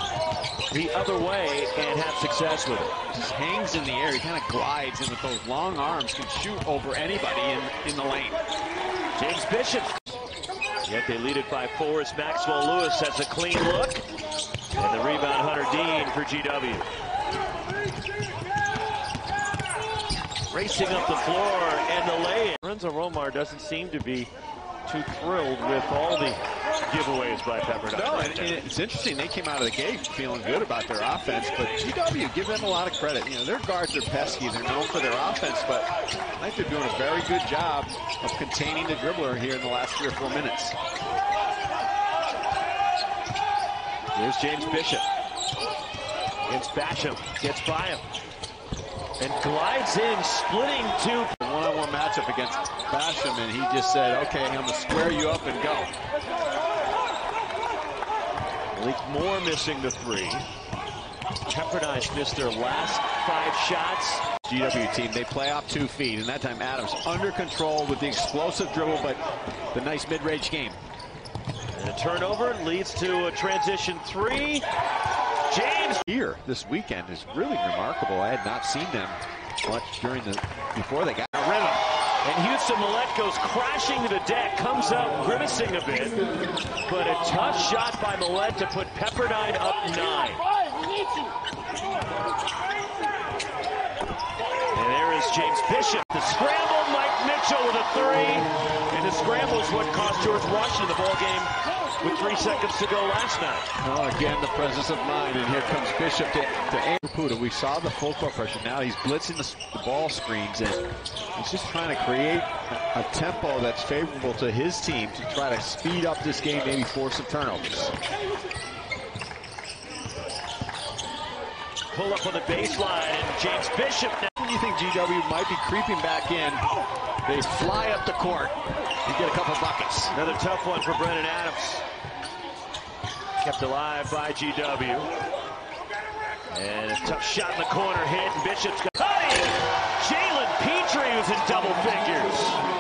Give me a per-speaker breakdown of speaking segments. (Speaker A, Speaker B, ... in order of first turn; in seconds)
Speaker A: 0.7-2.9, 9.2-9.9, 10.8-14.0, 14.8-16.9, 20.5-24.3, 24.8-28.6, 44.1-45.0, 46.5-48.0, 49.2-51.3, 58.7-60.4, 61.5-64.3, 71.7-74.6, 75.5-76.0, 82.2-86.2, 86.8-90.5, 94.7-103.7, 121.9-124.3, 130.1-131.8, 133.4-135.1, 136.5-142.6
Speaker B: 3.1-8.4, 27.9-40.8, 51.4-55.9, 64.4-69.2, 69.7-70.8, 76.0-81.8, 103.8-110.8, 111.3-117.9, 124.4-130.1